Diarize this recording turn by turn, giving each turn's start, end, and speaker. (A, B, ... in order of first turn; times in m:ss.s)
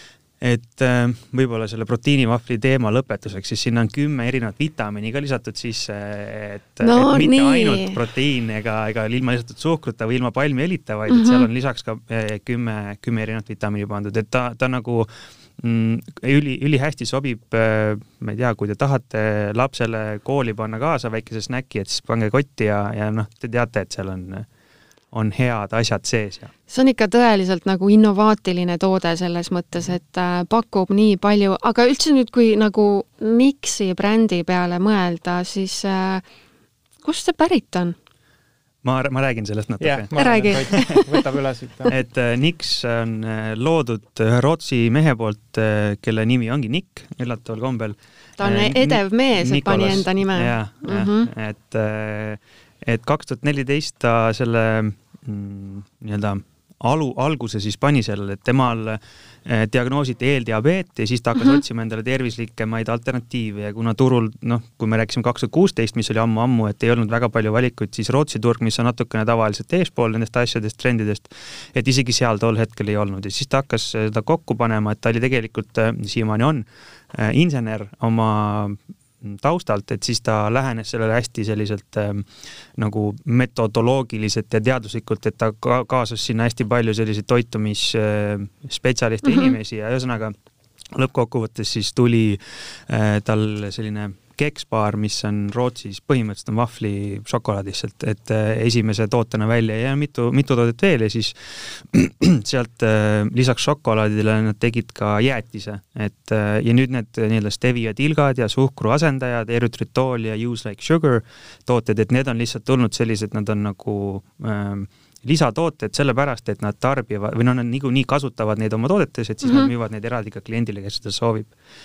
0:00.4-0:15.1 A
0:06.8-0:08.0 B
0:11.1-0:11.5 B
0:15.6-0:24.5 A
0:25.1-0:26.5 A
0:26.7-0:36.2 B
0:37.0-0:38.0 B
0:38.8-0:41.0 A
0:39.8-0:42.0 C
0:40.2-0:41.0 B
0:41.9-1:30.4 A
0:48.4-0:51.3 B
1:29.3-1:29.5 B
1:30.9-2:01.5 A
1:59.4-1:59.7 B